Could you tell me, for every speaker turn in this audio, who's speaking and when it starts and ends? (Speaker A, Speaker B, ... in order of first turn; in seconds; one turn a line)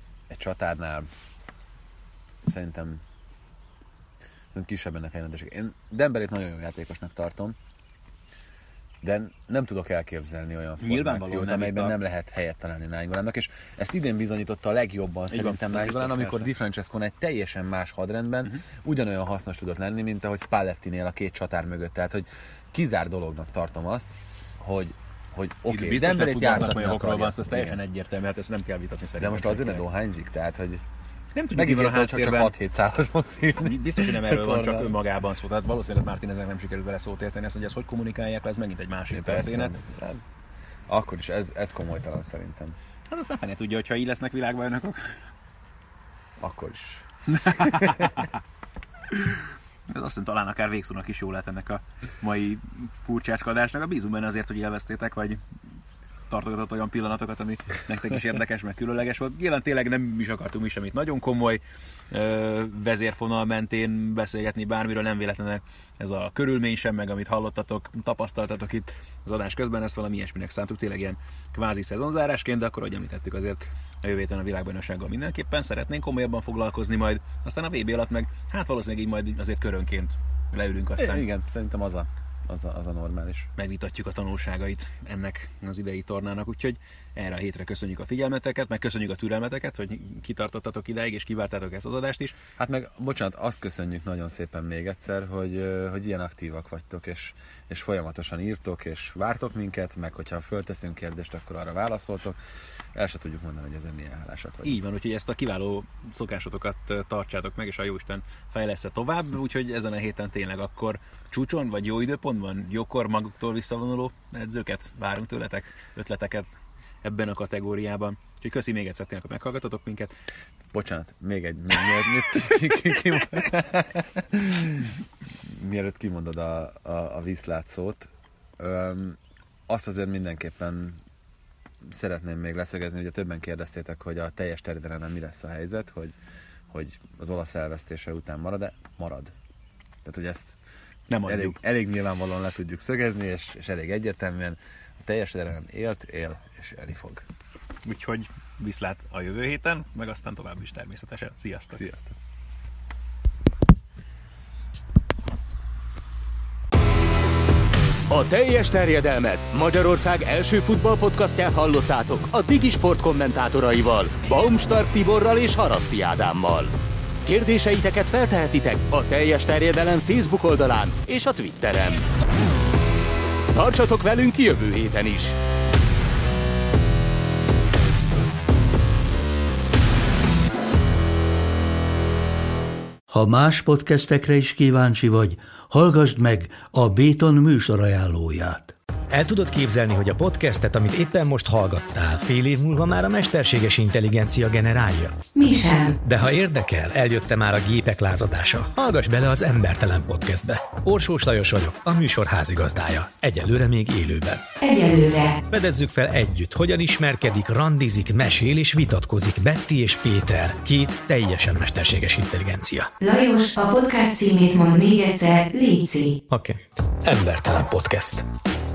Speaker A: 0.3-1.1
Speaker A: 2.4-3.0
Speaker A: 4.5-7.6
Speaker A: 9.0-27.8
Speaker B: 10.8-12.0
Speaker B: 15.3-16.5
Speaker B: 25.7-29.9
Speaker A: 29.2-30.8
Speaker B: 31.4-32.5
Speaker A: 31.6-35.0
Speaker B: 33.6-39.8
Speaker A: 39.1-40.2
Speaker A: 40.9-42.8
Speaker B: 43.1-45.3
Speaker A: 46.4-48.1
Speaker B: 47.3-48.3
Speaker B: 49.1-55.4
Speaker B: 56.3-81.3
Speaker A: 81.0-83.5
Speaker B: 83.6-92.4
Speaker A: 92.6-102.4
Speaker A: 102.9-104.8
Speaker B: 104.6-116.5
Speaker B: 117.0-120.1
Speaker A: 120.7-131.0
Speaker A: 131.8-136.2
Speaker A: 136.7-139.3
Speaker A: 140.0-140.6
Speaker B: 141.1-141.6
Speaker A: 141.2-147.3
Speaker B: 147.8-151.8
Speaker A: 151.7-152.2
Speaker C: 158.1-166.7
Speaker C: 167.2-172.1
Speaker C: 173.5-175.4
Speaker D: 183.1-188.7
Speaker E: 189.1-195.2
Speaker F: 195.3-196.0
Speaker E: 196.0-204.4
Speaker F: 204.6-205.4
Speaker E: 205.5-212.9
Speaker F: 213.0-216.2
Speaker E: 216.3-218.2